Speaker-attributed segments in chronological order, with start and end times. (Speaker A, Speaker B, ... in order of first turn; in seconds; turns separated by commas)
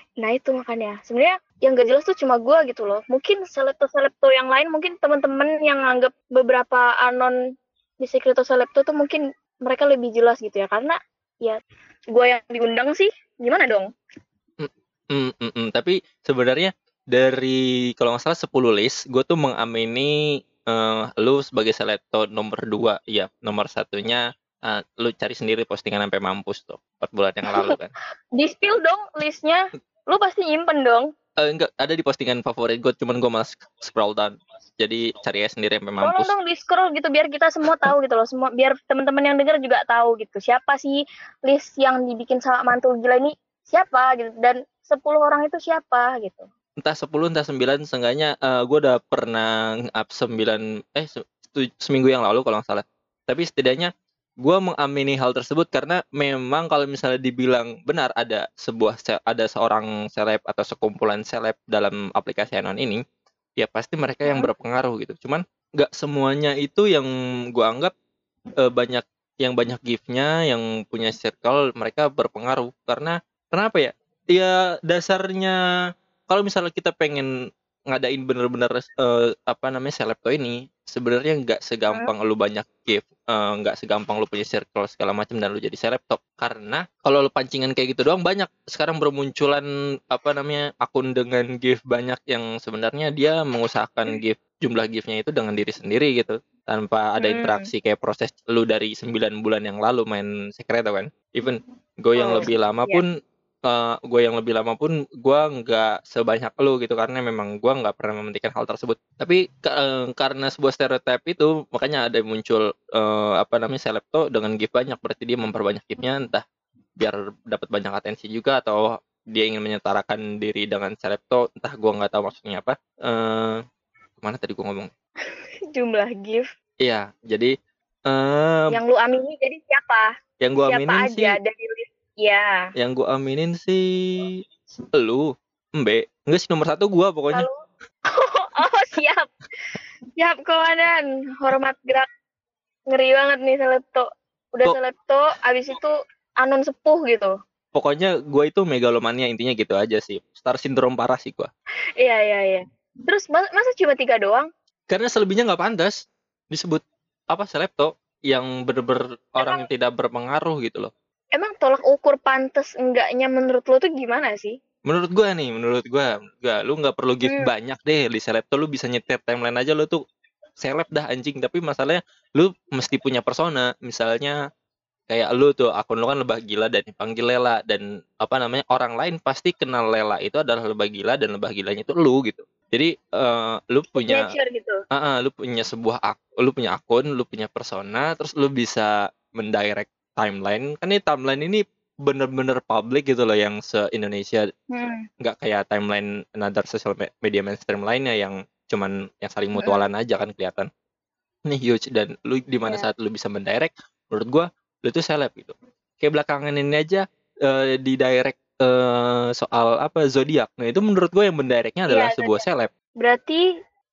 Speaker A: 0.2-7.3, Speaker A: 8.0-11.6, Speaker A: 12.1-13.9, Speaker B: 14.6-27.9, Speaker A: 27.5-27.8, Speaker A: 28.4-31.1, Speaker B: 31.4-36.3, Speaker A: 36.0-46.5, Speaker B: 46.8-63.0, Speaker B: 63.6-67.9, Speaker B: 68.6-75.5, Speaker B: 76.3-77.3, Speaker B: 77.9-103.1, Speaker A: 97.2-97.7, Speaker A: 102.2-103.0, Speaker B: 103.7-116.4, Speaker B: 117.0-123.6, Speaker B: 124.2-124.9, Speaker A: 125.7-126.5, Speaker B: 126.8-127.5, Speaker B: 128.1-128.8, Speaker A: 128.7-130.1, Speaker B: 130.4-131.4, Speaker A: 130.6-132.7, Speaker B: 132.8-134.4, Speaker B: 134.9-137.5, Speaker A: 137.3-139.3, Speaker A: 140.2-142.1, Speaker A: 142.9-147.3, Speaker B: 147.7-151.5, Speaker A: 152.0-154.5, Speaker B: 154.9-160.9, Speaker A: 159.4-159.6, Speaker A: 161.3-164.6, Speaker B: 164.8-170.0, Speaker B: 170.6-174.4, Speaker B: 175.1-184.3, Speaker A: 184.0-184.8, Speaker B: 184.9-194.4, Speaker A: 194.7-195.0, Speaker B: 195.2-200.7, Speaker A: 199.6-199.9, Speaker B: 201.5-212.7, Speaker A: 211.9-212.4, Speaker A: 213.0-213.4